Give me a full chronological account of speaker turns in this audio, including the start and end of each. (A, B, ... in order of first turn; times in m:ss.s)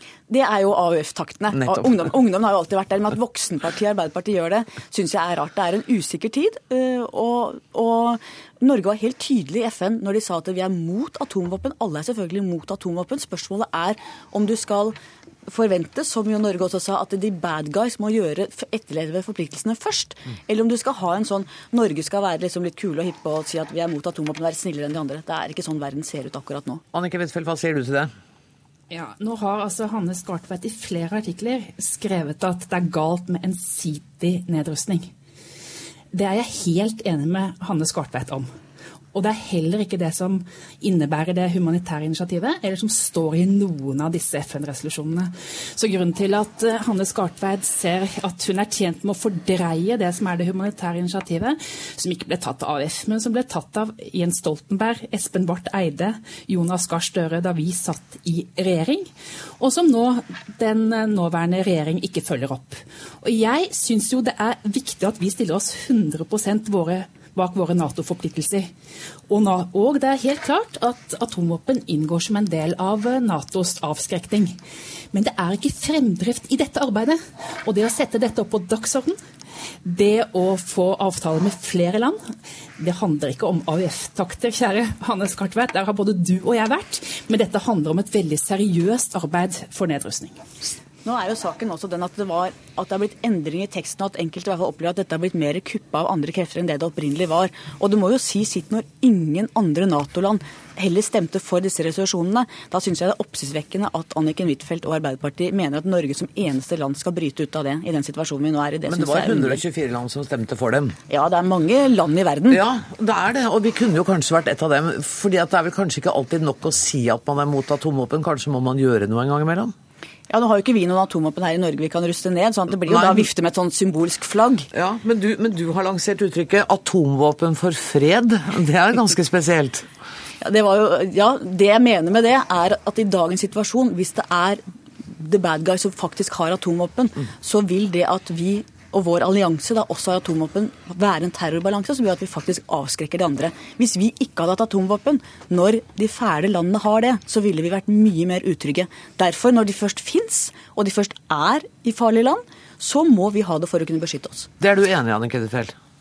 0:00.3-0:15.0 A
0:01.5-0:02.1 B
0:15.5-0:26.8 A
0:26.9-0:28.1 B
0:28.9-0:35.1 C
0:36.1-0:38.5 C
0:39.1-1:08.7 C
1:09.3-1:14.6 C
1:15.1-1:19.2 C
1:19.8-1:22.2 C
1:22.8-1:30.4 C
1:31.0-1:49.6 A
1:48.9-1:51.0 B
1:51.1-1:52.6 A
1:52.5-1:59.8 B
2:00.3-2:04.7 A
2:02.9-2:03.3 B
2:04.7-2:09.9 B
2:10.4-2:34.5 A
2:34.6-2:35.8 B